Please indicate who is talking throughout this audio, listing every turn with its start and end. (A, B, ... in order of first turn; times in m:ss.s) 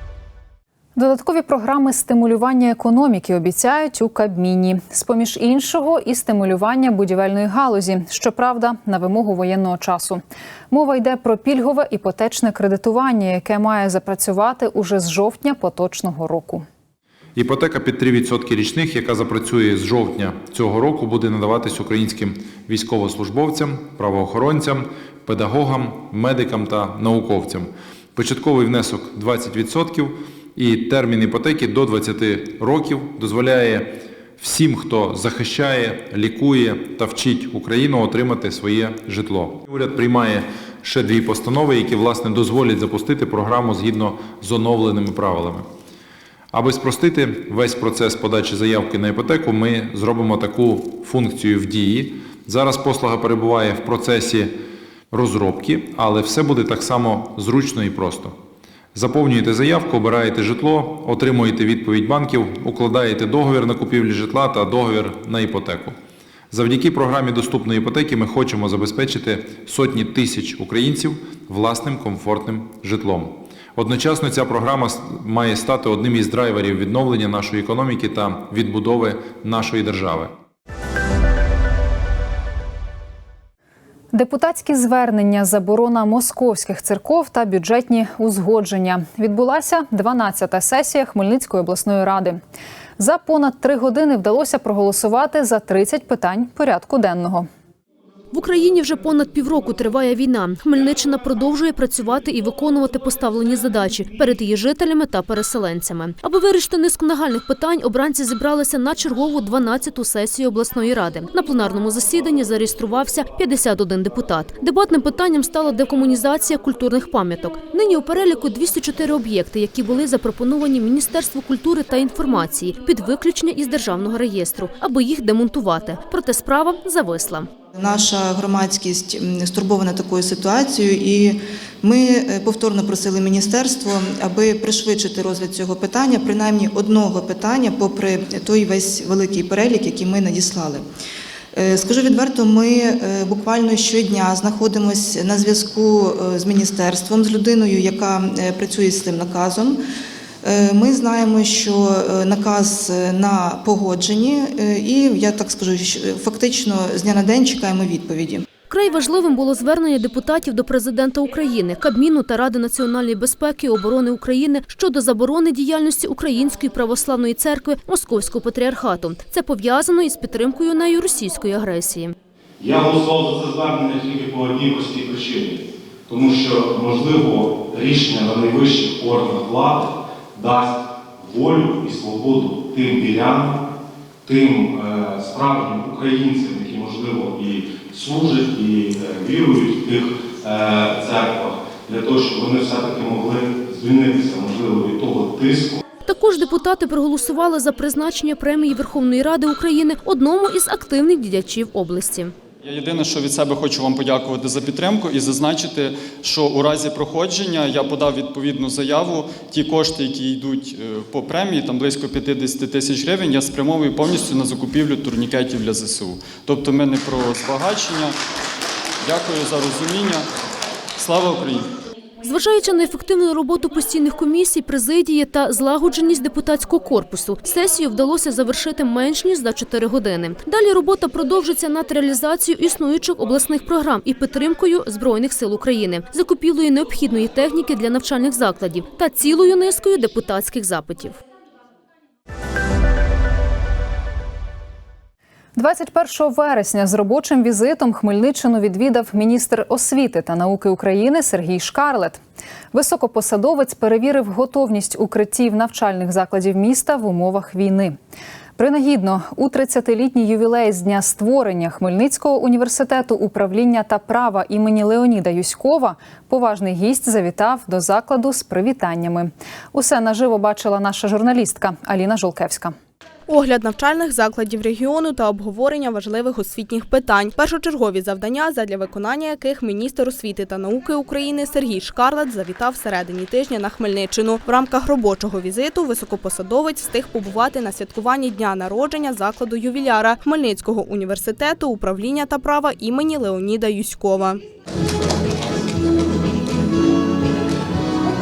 0:01.0-0:16.6 A
0:17.4-0:45.6 B
0:46.5-0:54.5 B
0:55.1-0:58.3 B
0:58.9-1:05.9 B
1:06.5-1:20.3 B
1:24.1-1:32.4 A
1:33.0-1:37.5 A
1:38.3-2:07.5 C
2:07.7-2:20.9 D
2:21.5-2:29.8 D
2:30.4-2:38.4 D
2:38.7-2:52.1 C
2:52.6-3:03.6 E
3:04.3-3:15.8 E
3:16.0-3:22.3 C
3:22.6-3:38.1 F
3:39.0-3:40.2 F
3:41.0-3:41.7 F
3:42.2-4:01.2 C
4:05.6-4:12.2 A
4:12.7-4:17.9 A
4:18.6-4:32.7 A
4:33.3-4:54.4 G